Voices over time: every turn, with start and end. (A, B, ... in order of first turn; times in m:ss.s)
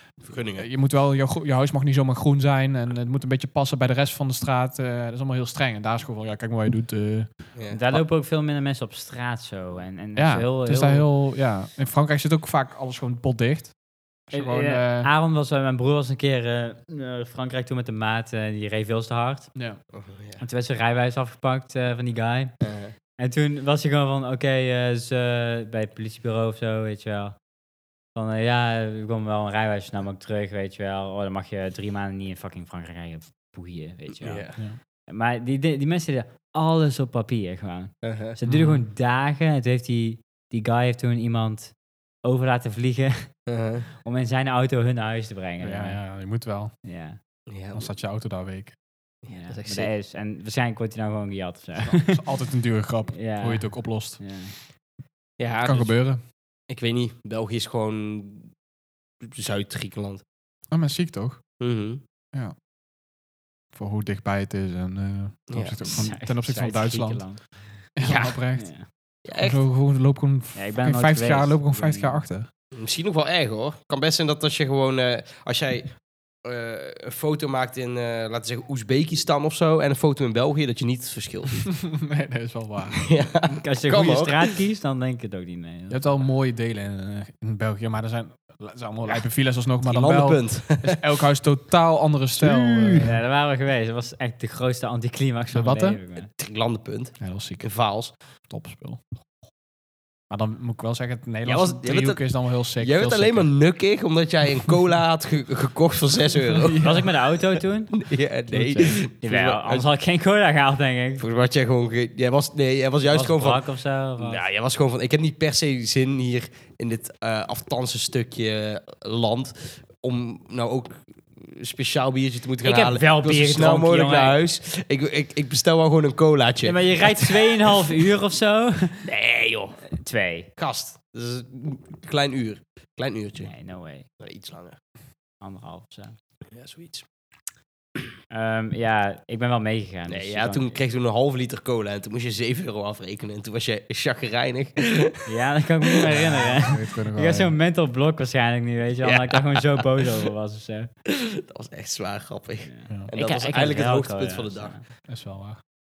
0:00.2-0:00.7 A
0:00.6-0:07.3 B
0:07.6-0:07.8 A
0:07.7-0:11.1 C
0:10.2-0:13.7 B
0:14.3-0:15.1 B
0:14.3-0:19.5 C
0:19.9-0:20.4 A
0:20.4-0:22.5 C
0:22.6-0:22.9 A
0:23.2-0:27.4 C
0:28.2-0:34.5 C
0:34.2-0:34.6 A
0:35.1-0:41.7 C
0:38.0-0:38.4 A
0:38.5-0:38.8 B
0:42.2-0:43.3 C
0:43.5-0:43.9 A
0:44.0-0:46.0 C
0:45.6-0:46.7 B
0:46.8-0:47.2 C
0:47.5-0:47.9 A
0:47.7-0:48.8 B
0:49.2-0:49.9 A
0:49.3-0:52.2 C
0:51.8-0:54.2 B
0:53.1-0:54.5 C
0:55.4-0:56.0 A
0:55.6-0:56.2 B
0:56.7-0:58.5 A
0:59.2-1:00.2 A
1:00.7-1:01.4 B
1:01.6-1:02.0 A
1:03.8-1:07.3 B
1:05.5-1:05.8 A
1:05.8-1:07.9 C
1:08.0-1:08.7 B
1:08.0-1:08.4 A
1:08.6-1:08.9 C
1:09.2-1:09.6 A
1:09.4-1:12.5 B
1:10.6-1:12.2 C
1:12.7-1:21.7 A
1:21.7-1:23.0 B
1:23.0-1:24.6 A
1:23.6-1:26.1 C
1:25.9-1:33.1 B
1:29.8-1:31.0 A
1:32.4-1:33.1 A
1:33.0-1:36.3 C
1:35.5-1:36.0 B
1:36.4-1:38.1 A
1:37.2-1:37.7 B
1:38.5-1:39.0 B
1:40.3-1:43.5 B
1:41.4-1:47.1 A
1:46.6-1:47.1 B
1:46.8-1:48.0 C
1:47.9-1:49.9 A
1:48.5-1:49.0 B
1:49.2-1:51.2 C
1:51.2-1:53.6 A
1:53.1-1:54.4 C
1:54.2-2:08.1 A
2:02.6-2:04.4 C
2:06.6-2:09.1 C
2:09.0-2:09.8 A
2:09.9-2:10.5 C
2:10.6-2:13.5 A
2:13.4-2:14.1 C
2:14.2-2:14.8 A
2:15.4-2:16.2 C
2:16.5-2:17.1 A
2:18.3-2:20.8 C
2:20.1-2:25.3 A
2:25.3-2:30.9 C
2:25.8-2:26.5 A
2:26.5-2:27.6 B
2:29.0-2:30.3 A
2:31.1-2:34.7 A
2:32.6-2:34.8 C
2:35.1-2:35.6 B